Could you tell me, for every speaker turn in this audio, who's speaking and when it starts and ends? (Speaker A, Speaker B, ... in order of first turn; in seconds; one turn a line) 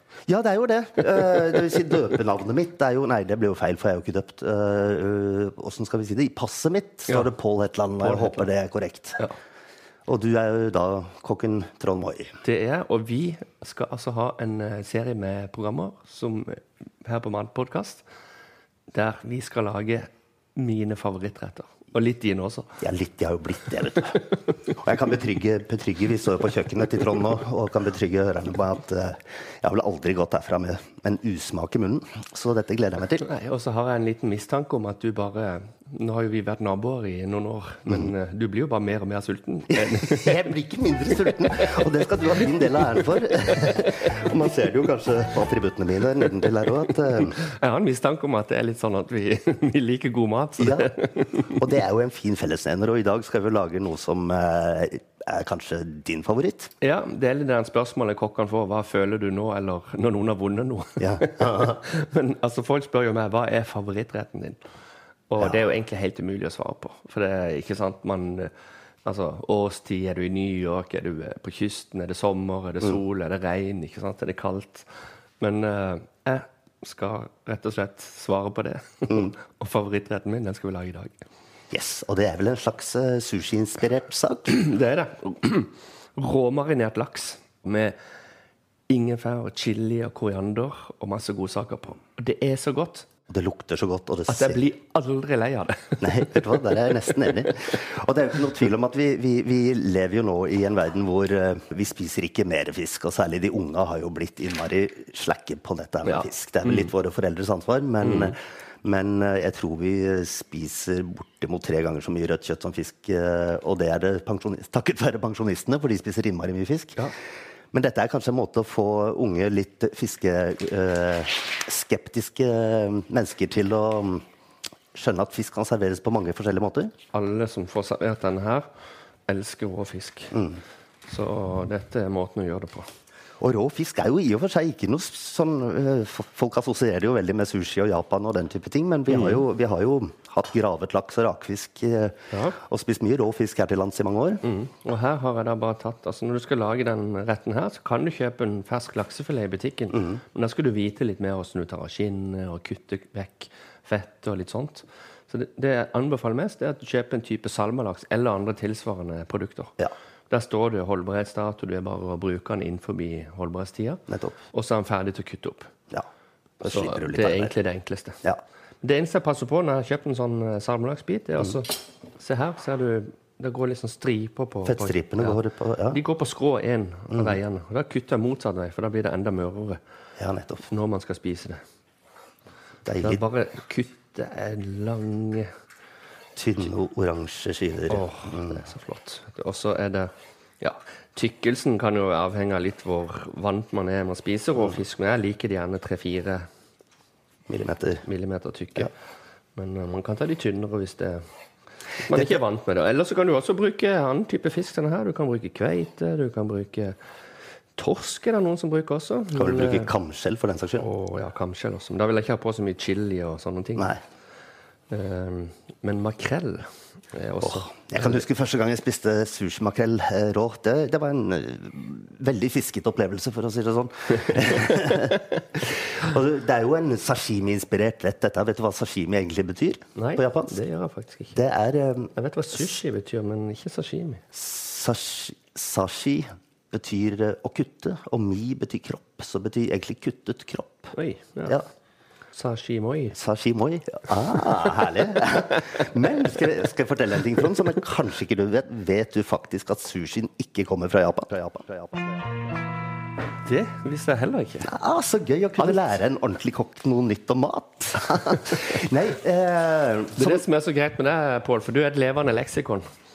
Speaker A: 0.3-9.3
Speaker B: 8.0-8.5
Speaker A: 10.1-12.3
Speaker B: 12.4-18.0
Speaker B: 18.9-22.8
Speaker A: 22.8-33.2
Speaker B: 33.2-40.4
Speaker A: 39.8-47.4
Speaker B: 47.2-51.6
Speaker A: 50.6-56.7
Speaker B: 56.8-64.6
Speaker A: 61.0-61.8
Speaker B: 65.3-68.5
Speaker B: 69.0-74.9
Speaker B: 75.4-81.2
Speaker A: 81.7-84.6
Speaker B: 84.5-88.0
Speaker B: 88.9-93.1
Speaker A: 93.3-94.7
Speaker B: 94.3-97.3
Speaker A: 96.0-117.0
Speaker B: 106.0-106.9
Speaker B: 108.0-108.3
Speaker A: 117.7-124.2
Speaker A: 124.9-126.9
Speaker B: 127.1-128.7
Speaker B: 129.3-130.4
Speaker A: 130.3-130.6
Speaker B: 131.1-132.8
Speaker A: 133.4-144.4
Speaker B: 139.1-139.4
Speaker B: 142.3-142.6
Speaker B: 144.4-159.7
Speaker B: 160.3-165.7
Speaker A: 164.1-164.4
Speaker A: 166.6-167.5
Speaker B: 166.6-168.2
Speaker B: 168.8-179.8
Speaker A: 174.7-176.0
Speaker A: 177.1-177.4
Speaker A: 180.2-180.7
Speaker B: 180.7-181.6
Speaker A: 182.8-183.2
Speaker B: 183.0-185.5
Speaker A: 186.3-188.6
Speaker B: 187.9-196.4
Speaker A: 197.5-198.1
Speaker B: 198.0-198.9
Speaker B: 199.6-201.2
Speaker B: 202.0-206.9
Speaker A: 202.1-202.4
Speaker B: 207.8-209.9
Speaker A: 209.3-210.9
Speaker B: 210.8-213.9
Speaker B: 214.9-218.2
Speaker A: 217.4-230.6
Speaker B: 229.9-231.4
Speaker A: 231.3-232.1
Speaker B: 232.1-234.2
Speaker A: 234.3-240.9
Speaker B: 240.9-241.6
Speaker B: 242.3-243.2
Speaker A: 243.1-252.2
Speaker B: 253.4-254.7
Speaker A: 254.6-260.4
Speaker B: 260.1-262.8